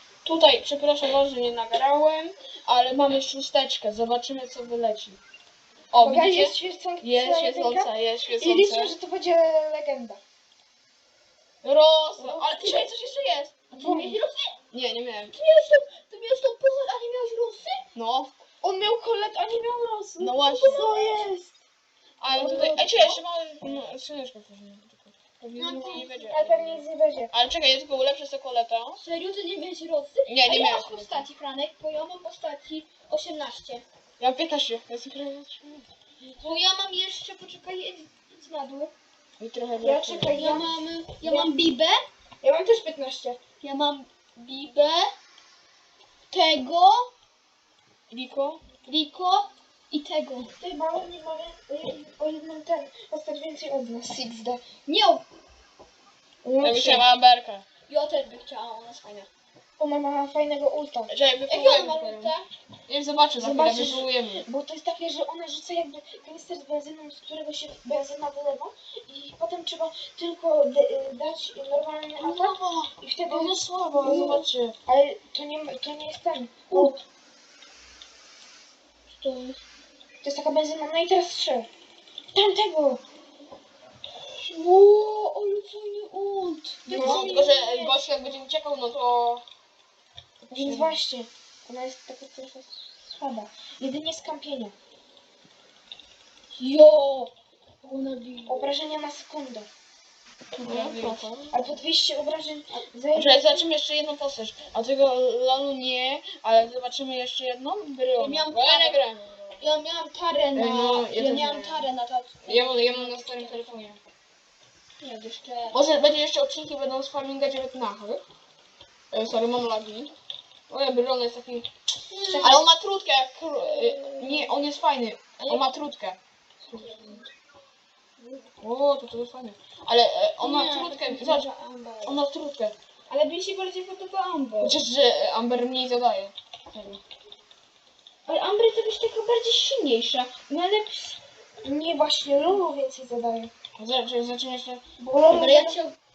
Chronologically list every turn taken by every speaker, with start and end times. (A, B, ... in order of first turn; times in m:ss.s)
0:00.2-0:05.2 A
0:05.9-0:09.0 A
0:06.0-0:10.2 B
0:11.6-0:13.6 A
0:12.2-0:12.6 B
0:13.7-0:14.6 C
0:13.7-0:14.2 B
0:14.7-0:15.4 A
0:15.3-0:17.9 C
0:18.0-0:18.3 A
0:18.6-0:21.6 B
0:20.2-0:20.9 A
0:20.6-0:21.3 C
0:22.2-0:29.0 A
0:22.3-0:23.2 B
0:22.3-0:23.1 C
0:25.6-0:26.1 C
0:25.6-0:27.3 B
0:29.0-0:33.8 C
0:30.3-0:31.2 A
0:34.2-0:35.9 A
0:36.2-0:36.6 B
0:36.4-0:38.9 C
0:39.4-0:40.6 A
0:39.8-0:41.6 B
0:40.4-0:42.1 C
0:42.4-0:43.4 B
0:43.6-0:45.1 C
0:46.3-0:47.1 C
0:48.1-0:48.6 A
0:48.9-0:50.5 C
0:50.6-0:54.6 B
0:54.9-0:55.2 C
0:56.4-0:57.1 B
0:56.6-0:57.7 A
0:57.9-0:59.3 C
0:59.8-1:01.1 B
1:01.1-1:02.3 A
1:01.5-1:02.5 C
1:02.9-1:04.4 A
1:03.4-1:17.0 B
1:12.2-1:14.8 A
1:16.7-1:17.0 C
1:19.1-1:19.6 C
1:20.2-1:21.7 B
1:22.3-1:23.0 B
1:24.4-1:28.0 C
1:26.9-1:27.5 B
1:26.9-1:29.4 A
1:30.5-1:31.0 A
1:30.5-1:34.7 B
1:36.5-1:38.7 C
1:38.5-1:39.7 B
1:40.6-1:41.3 C
1:40.6-1:41.6 A
1:41.5-1:43.7 B
1:43.1-1:49.6 A
1:48.2-1:49.0 C
1:49.6-1:53.8 C
1:50.5-1:51.9 A
1:52.4-1:54.0 A
1:55.0-1:55.8 C
1:55.7-1:58.2 A
1:59.1-2:00.1 A
2:00.7-2:01.7 A
2:02.1-2:02.6 C
2:02.2-2:02.7 B
2:02.4-2:06.2 A
2:03.7-2:04.5 C
2:06.7-2:07.3 C
2:06.7-2:07.1 B
2:08.2-2:08.5 C
2:08.6-2:11.5 A
2:10.4-2:12.2 C
2:12.0-2:12.8 A
2:13.1-2:14.8 C
2:14.6-2:17.0 A
2:18.3-2:21.2 C
2:21.6-2:23.5 B
2:23.8-2:24.8 A
2:25.0-2:25.8 B
2:25.3-2:26.0 C